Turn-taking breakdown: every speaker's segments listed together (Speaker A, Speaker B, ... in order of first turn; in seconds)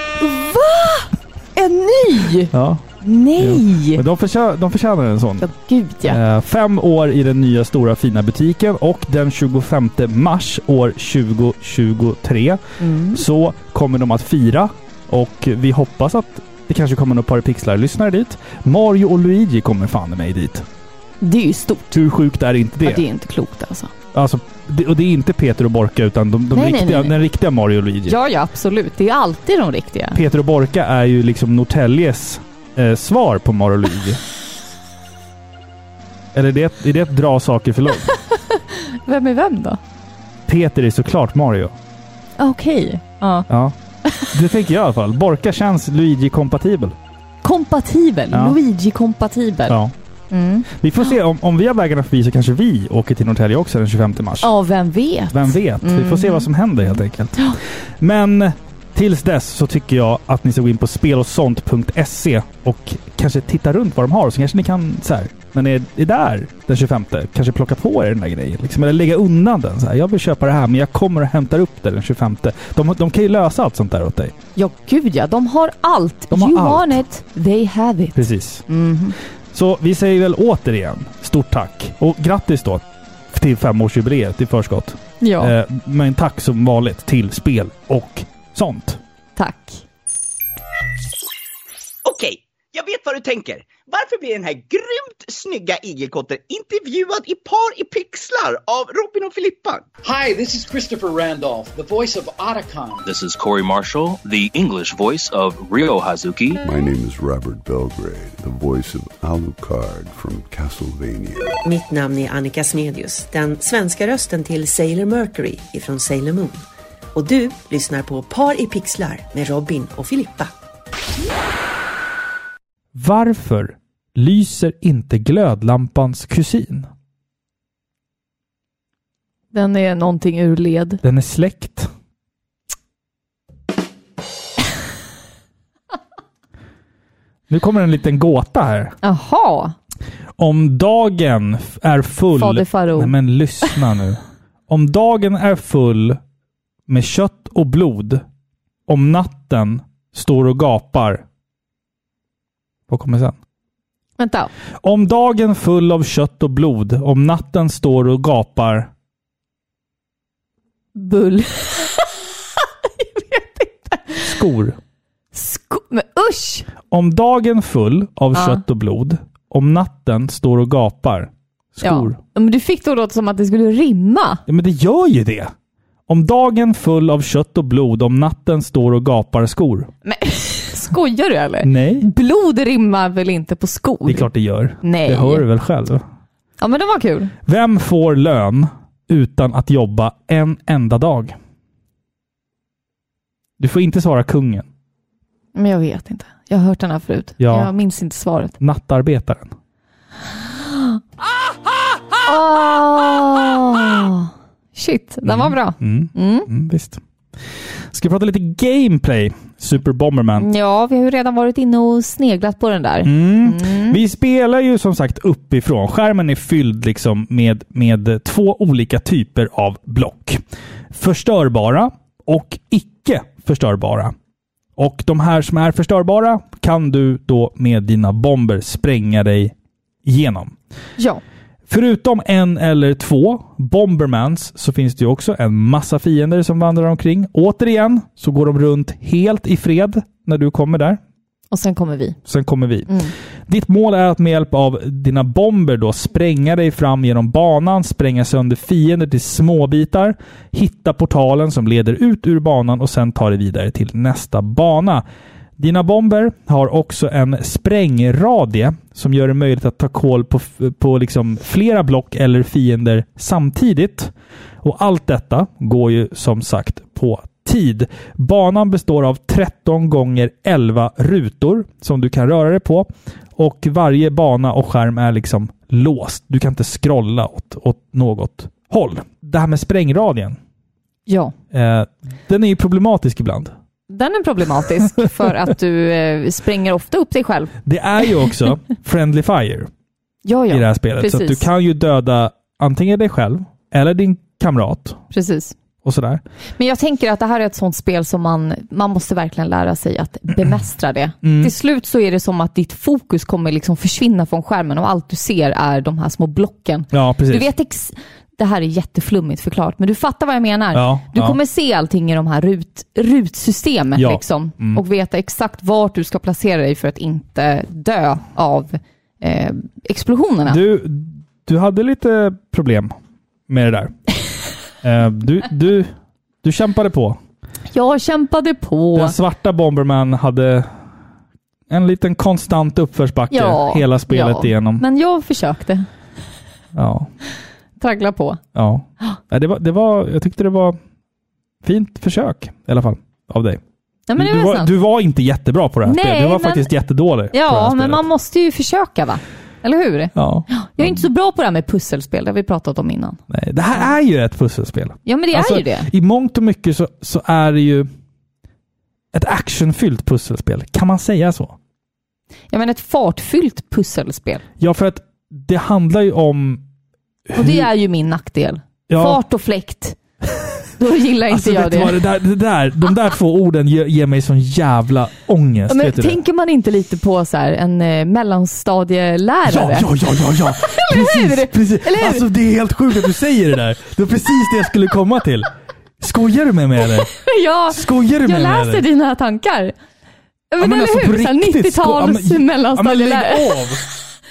Speaker A: 0.2-4.0, 5.4-6.2, 12.8-13.2, 21.2-22.0, 22.8-23.9, 26.5-27.1, 28.1-30.2, 38.1-39.8, 42.4-43.5, 47.4-49.8, 50.3-50.7, 54.4-56.5, 74.5-79.2, 85.2-85.5, 89.4-89.8, 129.5-131.0, 139.0-139.7, 142.3-143.7, 154.2-154.5, 160.9-164.4, 165.3-166.7, 168.3-168.6, 171.8-174.4, 180.0-184.3, 184.8-185.4, 186.6-187.3, 195.5-198.5, 202.2-206.5, 210.4-214.0, 241.5-242.2, 242.9-243.1, 281.1-281.3, 283.9-287.5, 290.2-291.4, 295.1-295.6, 296.6-320.6, 327.7-329.1, 333.3-335.9, 337.8-338.4, 344.1-344.7, 345.8-346.7, 347.3-353.2, 355.1-355.9, 362.5-364.4, 367.4-370.0, 370.8-372.0, 375.7-382.2, 387.0-389.7, 390.5-393.8
Speaker B: 2.5-2.8, 3.4-5.5, 6.0-12.6, 13.1-20.6, 21.9-23.0, 24.1-28.2, 30.1-34.2, 36.3-38.1, 40.5-41.7, 43.5-43.8, 44.3-47.0, 48.3-48.6, 49.7-49.9, 50.7-54.5, 55.3-74.3, 76.3-77.0, 78.2-78.6, 79.5-89.0, 122.9-126.9, 131.0-131.9, 137.5-139.0, 140.4-146.2, 146.9-148.2, 148.9-151.2, 152.9-153.4, 154.8-158.9, 164.2-164.8, 166.9-172.2, 174.5-175.5, 176.1-179.9, 181.6-182.1, 184.1-186.0, 187.4-191.3, 193.6-194.7, 197.4-197.7, 198.6-199.5, 205.2-207.0, 207.9-210.5, 213.0-224.1, 224.8-230.5, 231.7-241.0, 242.3-255.0, 255.6-280.4, 281.5-283.5, 287.6-289.7, 290.5-295.0, 295.8-296.2, 301.2-301.5, 306.9-307.5, 310.7-311.4, 313.9-314.8, 320.4-322.9, 323.5-324.0, 324.8-327.2, 328.9-330.7, 331.7-334.8, 336.7-337.1, 338.5-340.8, 341.6-343.6, 344.2-348.0, 350.1-351.0, 353.3-357.9, 359.1-361.6, 364.6-366.6, 367.3-367.7, 368.9-369.2, 371.3-376.2, 379.4-387.1, 387.7-388.8, 390.6-393.8
Speaker C: 92.0-99.8
Speaker D: 100.0-103.0
Speaker E: 103.0-106.6
Speaker F: 106.6-111.6
Speaker G: 111.6-116.6, 117.1-120.5